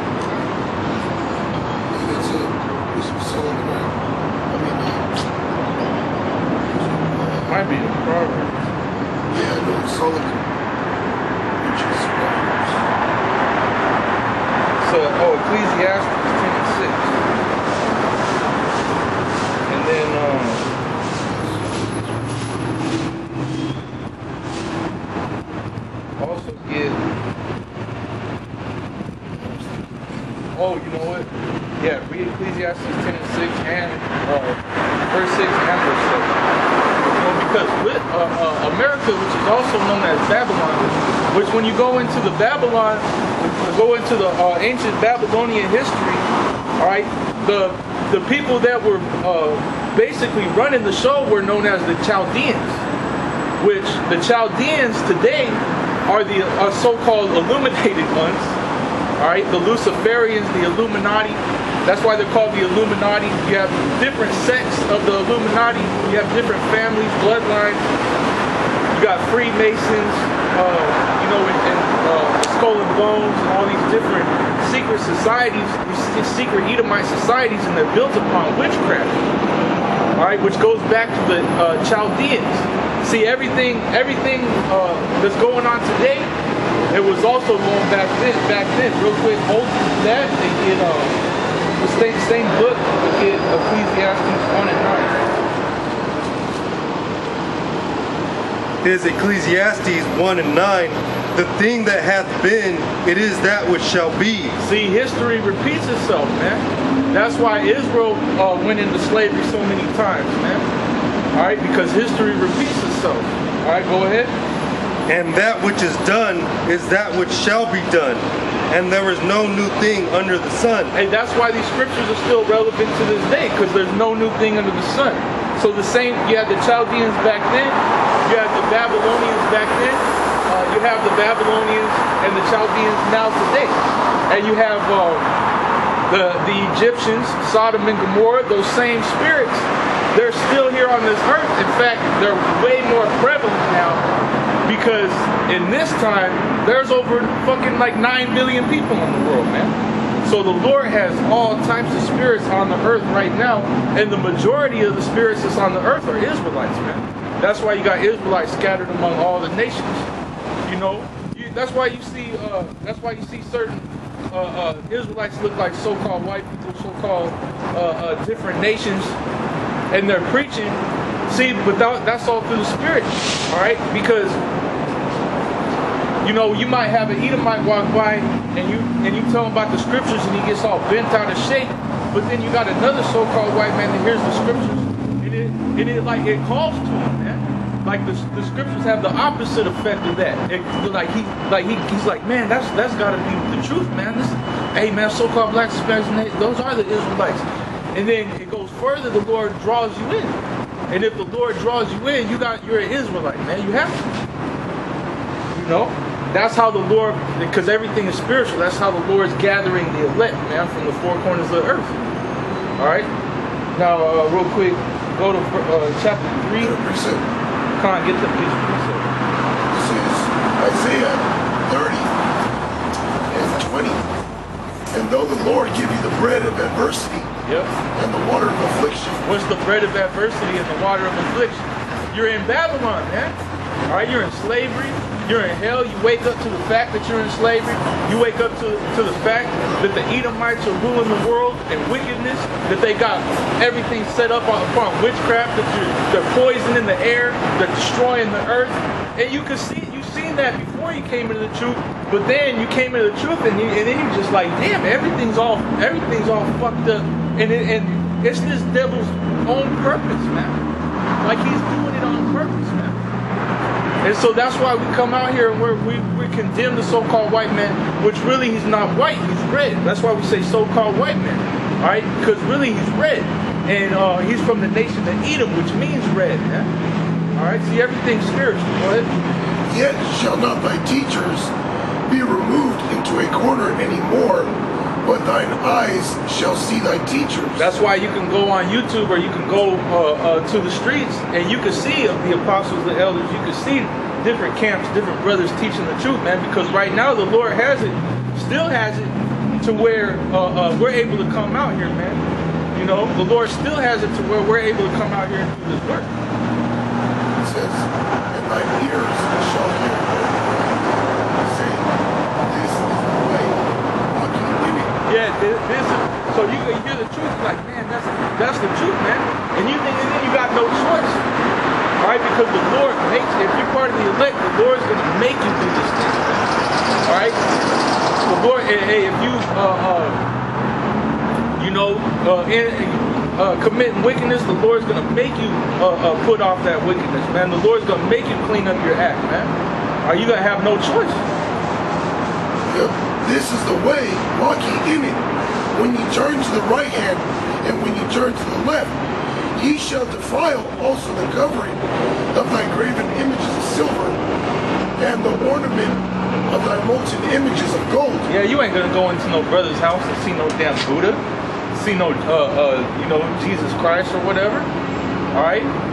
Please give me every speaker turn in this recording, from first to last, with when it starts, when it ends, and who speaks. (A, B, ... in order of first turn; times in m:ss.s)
0:01.9-0:05.4 A
0:06.4-0:07.6 A
0:07.4-0:08.7 B
0:09.3-0:10.5 A
0:11.6-0:12.8 A
0:14.8-0:17.2 B
0:19.7-0:20.7 B
0:21.2-0:21.9 A
0:26.2-0:27.0 B
0:29.2-0:30.2 A
0:30.5-0:36.4 B
0:37.1-0:46.2 B
0:46.8-0:52.8 B
0:53.6-0:58.6 B
0:59.2-1:07.8 B
1:08.9-1:19.2 B
1:20.2-1:26.3 B
1:26.9-1:31.2 B
1:31.8-1:35.2 B
1:38.8-1:44.6 C
1:44.6-1:50.7 B
1:51.3-1:54.3 B
1:55.1-2:00.9 C
2:00.9-2:15.3 B
2:16.1-2:24.0 B
2:24.6-2:40.1 B
2:40.6-2:49.2 B
2:49.9-2:54.4 B
2:56.2-3:20.4 B
3:20.9-3:24.1 B
3:25.5-3:32.0 B
3:32.8-3:33.1 B
3:33.8-3:36.8 B
3:36.6-3:37.2 A
3:37.8-3:39.1 B
3:39.7-3:42.1 A
3:43.3-3:44.1 A
3:44.9-3:47.3 A
3:47.4-3:47.7 B
3:47.9-3:49.2 A
3:49.2-3:53.4 B
3:53.9-4:20.6 B
4:21.2-4:23.0 B
4:24.0-4:36.7 B
4:37.4-4:39.1 B
4:39.7-4:41.5 A
4:42.1-4:47.7 A
4:47.6-5:06.1 B
5:07.4-5:11.9 A
5:12.5-5:15.0 A
5:15.1-5:21.2 B
5:22.0-5:26.4 B
5:27.0-5:27.4 B
5:28.2-5:30.2 B
5:31.6-5:39.5 B
5:40.0-5:41.2 B
5:42.7-5:49.0 A
5:49.6-5:51.8 A
5:52.3-5:54.2 A
5:55.0-5:58.3 A
5:58.3-6:01.2 B
6:01.7-6:04.7 B
6:05.3-6:05.7 B